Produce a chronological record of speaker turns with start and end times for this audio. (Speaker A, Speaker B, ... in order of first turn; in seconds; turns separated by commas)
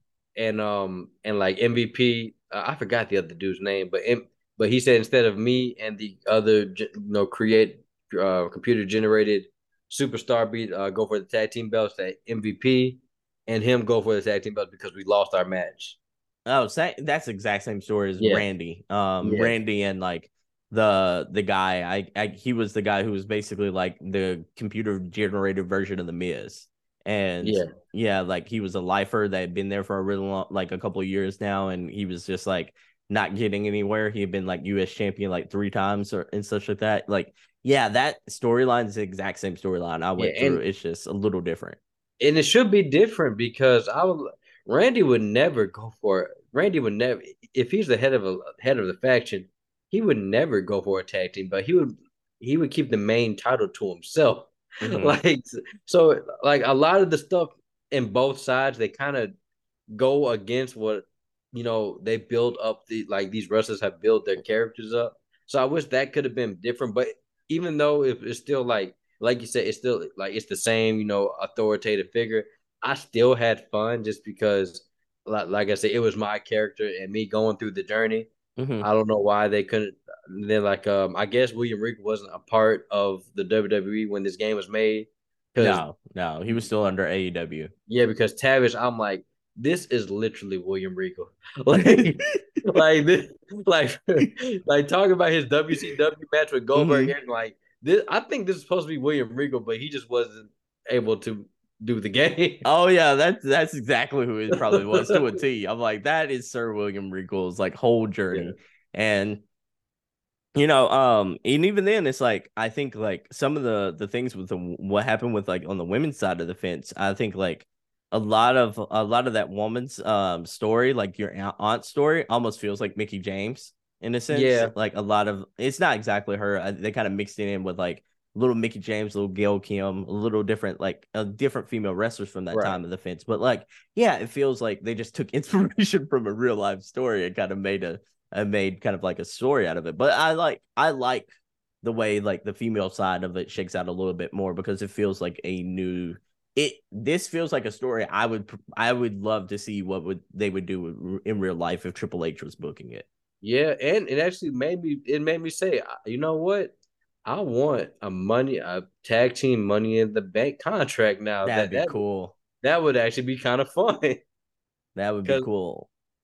Speaker A: 0.3-16.0, Speaker B: 16.4-41.8, Speaker A: 18.2-18.5, Speaker A: 19.2-19.5, Speaker A: 27.4-27.7, Speaker A: 40.2-40.6, Speaker A: 42.2-59.3, Speaker B: 54.8-55.2, Speaker A: 59.9-78.3, Speaker B: 78.6-78.8, Speaker A: 78.8-85.8, Speaker B: 85.6-87.7, Speaker A: 87.9-102.7, Speaker B: 91.7-92.2, Speaker B: 96.7-97.1, Speaker B: 102.6-109.4, Speaker A: 104.5-105.1, Speaker B: 110.5-141.3, Speaker A: 124.3-124.7, Speaker A: 132.5-132.8, Speaker B: 141.8-153.1, Speaker A: 153.4-156.7, Speaker A: 157.2-162.0, Speaker B: 161.4-162.3, Speaker A: 162.6-164.2, Speaker B: 164.9-165.9